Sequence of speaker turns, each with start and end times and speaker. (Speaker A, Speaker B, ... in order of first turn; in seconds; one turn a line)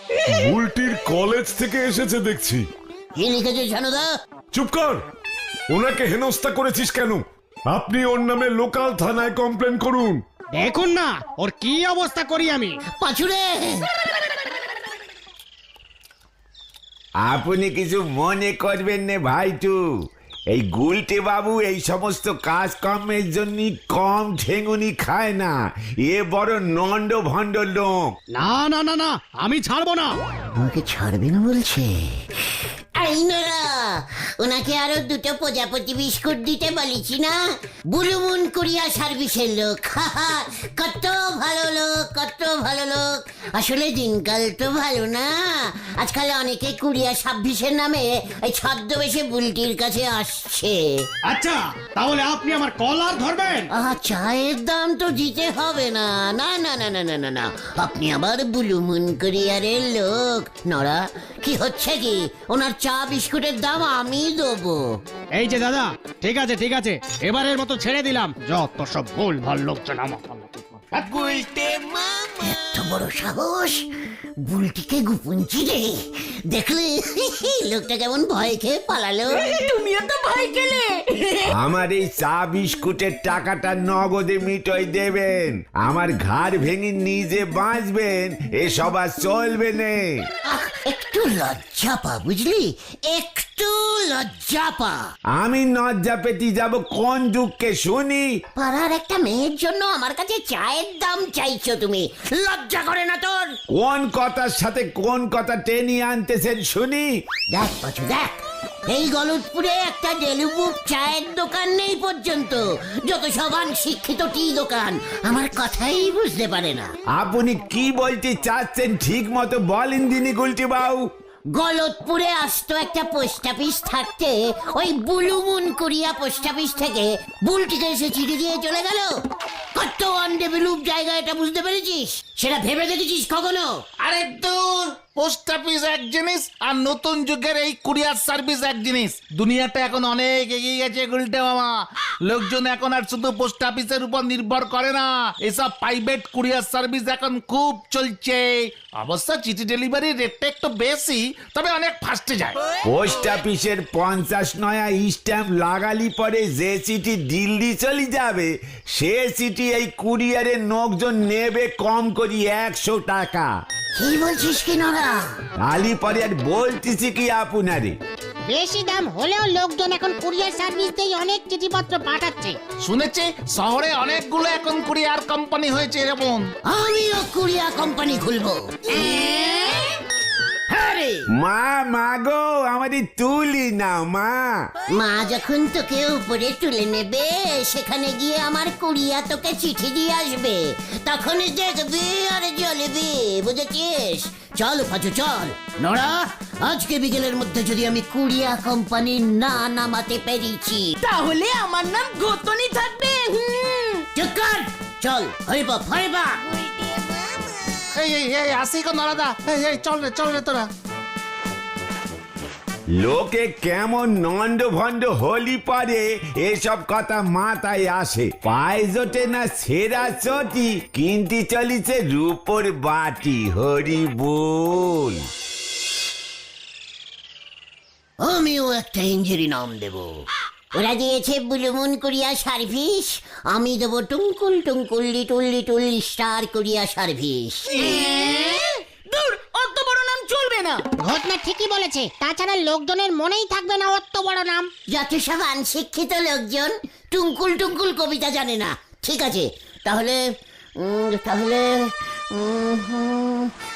Speaker A: 0.4-2.6
Speaker B: 3.2-4.1
Speaker A: 4.5-5.0
Speaker A: 5.7-10.2
Speaker C: 10.5-12.7
Speaker B: 13.0-13.9
Speaker D: 17.2-19.8
Speaker D: 20.5-28.1
Speaker C: 28.4-30.1
Speaker B: 30.6-37.3
Speaker B: 37.9-51.1
Speaker C: 51.3-53.7
Speaker B: 53.7-64.8
Speaker C: 65.4-71.1
Speaker E: 71.0-72.2
Speaker B: 72.5-73.9
Speaker B: 74.5-79.5
Speaker E: 79.4-81.5
Speaker D: 81.5-90.2
Speaker B: 90.5-95.0
Speaker D: 95.3-98.3
Speaker B: 98.6-103.5
Speaker D: 103.7-107.1
Speaker B: 107.5-116.9
Speaker D: 117.1-121.1
Speaker B: 121.5-129.1
Speaker B: 129.7-133.8
Speaker F: 134.0-141.7
Speaker F: 142.2-152.6
Speaker D: 152.9-163.5
Speaker B: 164.0-165.2
Speaker D: 165.6-168.0
Speaker G: 168.5-172.6
Speaker F: 172.8-176.5
Speaker B: 176.7-179.9
Speaker B: 180.7-181.3
Speaker D: 181.3-184.6
Speaker B: 184.9-200.9
Speaker E: 201.0-204.1
Speaker B: 204.2-206.5
Speaker G: 206.6-207.3
Speaker F: 207.9-210.7
Speaker D: 212.9-225.3
Speaker B: 228.2-230.1
Speaker B: 230.7-237.9
Speaker E: 237.7-240.9
Speaker G: 241.0-244.7
Speaker B: 244.9-250.2
Speaker B: 250.8-253.5